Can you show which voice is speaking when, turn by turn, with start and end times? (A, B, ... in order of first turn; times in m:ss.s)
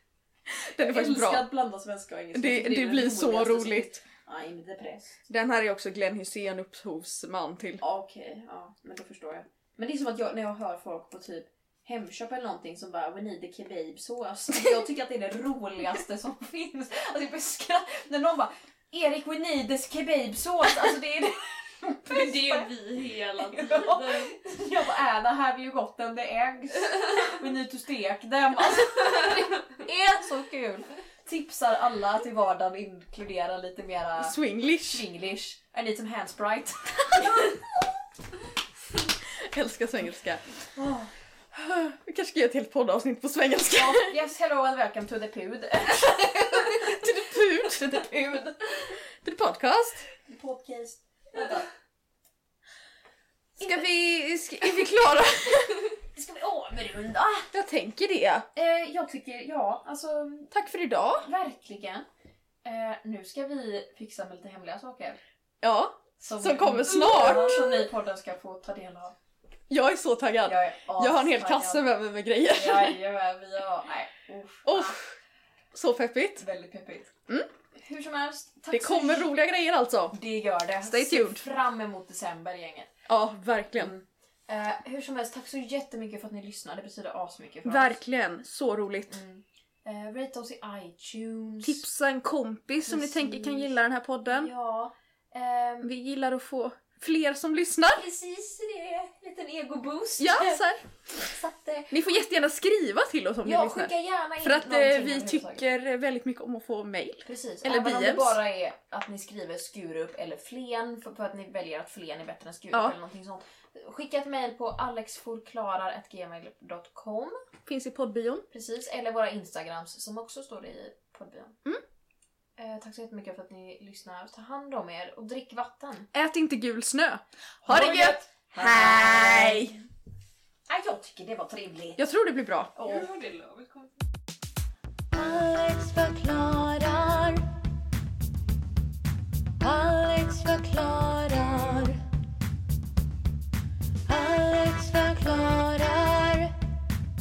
0:00.5-0:01.5 A
0:00.8-0:05.2 B
0:02.3-0:04.0 A
0:05.3-0:07.8 A
0:07.8-0:37.7 B
0:22.1-0:24.3 C
0:34.2-0:35.0 A
0:39.3-0:40.4 A
0:40.8-0:41.1 B
0:41.5-0:44.1 A
0:43.7-0:47.0 B
0:46.7-0:48.0 A
0:47.6-0:48.7 B
0:49.2-0:50.0 A
0:50.3-0:51.7 B
0:53.6-0:55.9 A
0:56.2-0:57.5 B
0:57.5-0:58.5 A
0:58.5-1:00.5 B
1:00.5-1:01.3 A
1:01.2-1:02.1 B
1:02.6-1:05.2 B
1:05.6-1:07.9 A
1:06.2-1:09.2 B
1:09.7-1:13.0 A
1:10.4-1:11.9 B
1:12.5-1:15.0 B
1:14.7-1:15.1 A
1:15.7-1:16.4 A
1:16.4-1:17.1 B
1:17.8-1:19.3 B
1:18.7-1:20.1 A
1:20.1-1:22.9 B
1:20.8-1:21.4 A
1:23.1-1:23.9 A
1:23.8-1:28.0 B
1:27.6-1:29.2 A
1:29.1-1:31.8 B
1:31.6-1:34.5 A
1:32.8-1:33.8 B
1:34.3-1:35.9 B
1:35.8-1:38.0 A
1:37.9-1:42.0 B
1:40.2-1:40.8 A
1:41.9-1:48.4 A
1:43.4-1:45.6 B
1:47.2-1:57.4 B
1:57.6-1:58.4 A
1:58.5-2:01.6 B
2:02.6-2:06.1 B
2:06.1-2:09.8 A
2:07.7-2:09.8 B
2:07.7-2:08.1 C
2:10.7-2:12.0 B
2:12.0-2:12.7 A
2:12.8-2:13.1 B
2:12.8-2:14.0 C
2:15.1-2:17.5 D
2:19.6-2:22.0 D
2:24.1-2:26.6 D